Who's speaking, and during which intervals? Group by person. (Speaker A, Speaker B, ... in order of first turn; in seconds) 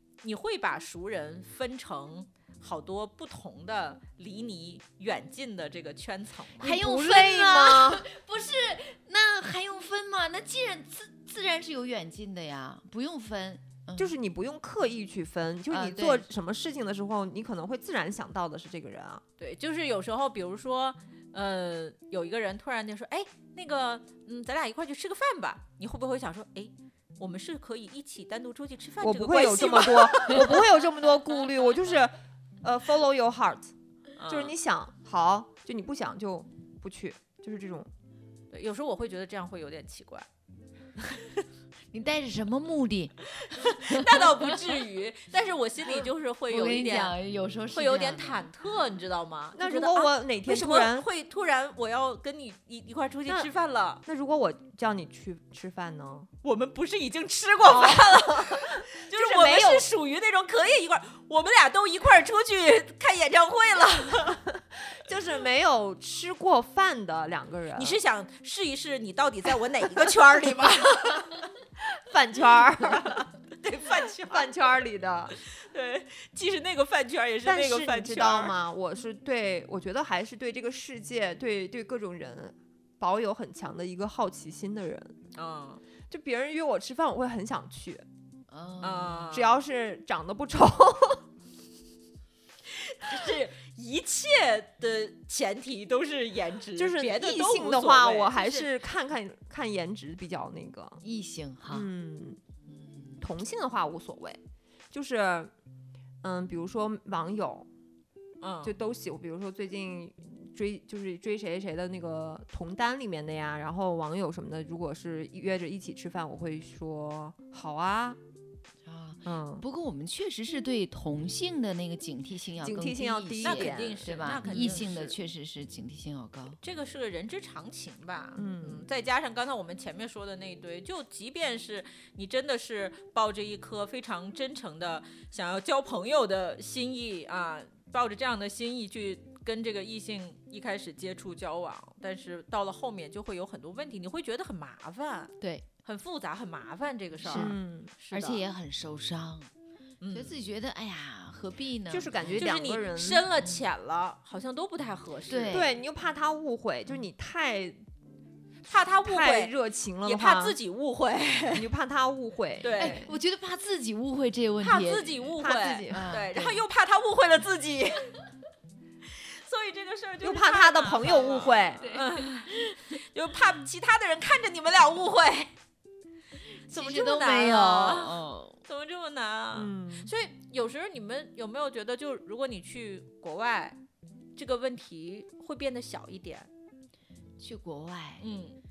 Speaker A: 0.2-6.7, 19.4-30.7, 34.2-34.5, 38.5-40.3, 41.0-41.4, 43.5-47.1, 47.7-54.0, 56.4-64.4, 67.7-71.5, 72.9-74.5, 75.3-78.6, 85.3-85.8, 88.8-89.5, 92.7-98.4, 108.4-108.8, 123.4-125.1, 126.6-148.4, 150.0-150.3, 152.4-155.7, 158.7-159.5, 160.0-161.7, 162.6-163.1, 164.6-168.1, 169.1-175.5, 176.7-183.8, 184.3-186.5, 188.2-188.6
Speaker B: 6.6-8.0, 14.0-19.2, 29.0-33.7, 34.3-37.9, 49.5-51.1, 54.0-56.3, 57.6-59.9, 65.0-68.0, 72.0-73.3, 74.2-75.3, 77.4-85.2, 86.1-88.0, 89.3-91.2, 96.8-101.0, 101.7-102.4, 103.2-104.4, 104.9-105.5, 106.2-107.7, 108.6-118.2, 119.2-119.6, 122.6-124.2, 128.3-128.8, 147.3-147.9, 151.9-153.3, 155.5-157.8, 159.0-160.6, 161.5-163.1, 165.3-166.1, 170.2-171.9, 179.5-180.1
Speaker C: 6.6-14.1, 15.7-16.2, 41.9-44.6, 46.5-48.4, 88.5-89.3, 101.0-101.9, 102.7-103.2, 118.8-126.6, 147.2-147.5, 148.1-149.5, 150.1-152.5, 155.3-155.7, 162.8-165.3, 165.9-166.6, 171.8-172.8, 176.7-178.6, 187.4-188.2